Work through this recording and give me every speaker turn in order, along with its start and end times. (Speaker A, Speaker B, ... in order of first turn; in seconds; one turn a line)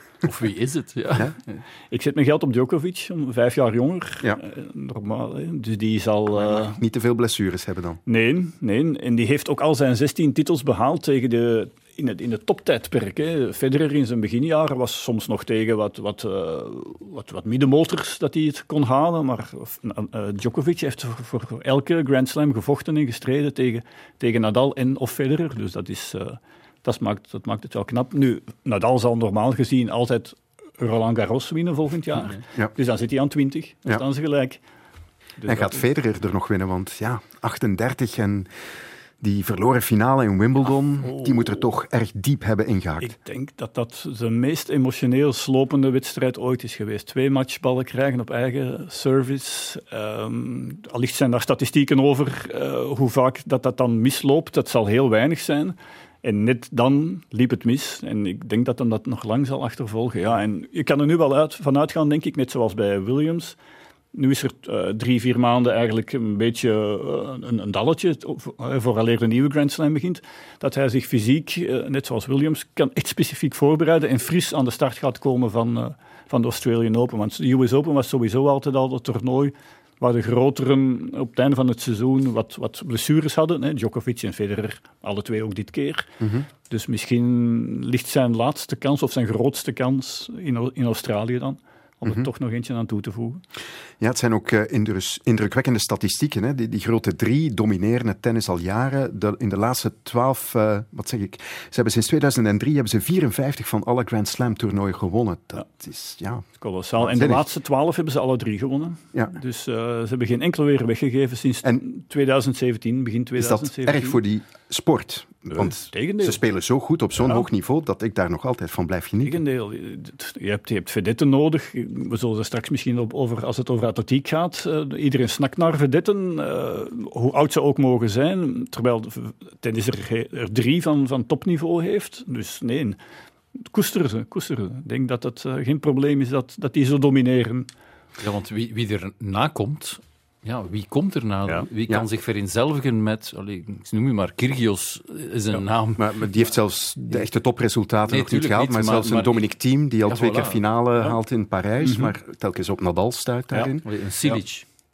Speaker A: 0.2-1.6
Speaker B: 1.9-6.8
Speaker C: 6.4-8.0
Speaker B: 8.1-34.6
Speaker B: 35.4-35.8
Speaker C: 35.5-38.5
Speaker C: 39.2-43.1
Speaker B: 41.0-41.6
Speaker B: 43.0-63.6
Speaker B: 64.1-86.1
Speaker C: 86.2-86.5
Speaker B: 86.7-93.4
Speaker C: 94.0-106.5
Speaker B: 106.6-114.2
Speaker C: 107.0-107.5
Speaker C: 113.4-119.4
Speaker B: 115.5-116.4
Speaker B: 119.2-133.0
Speaker B: 133.5-137.7
Speaker A: 138.2-146.1
Speaker C: 146.0-153.9
Speaker A: 148.1-149.4
Speaker A: 150.1-150.6
Speaker B: 151.8-152.1
Speaker A: 153.8-154.6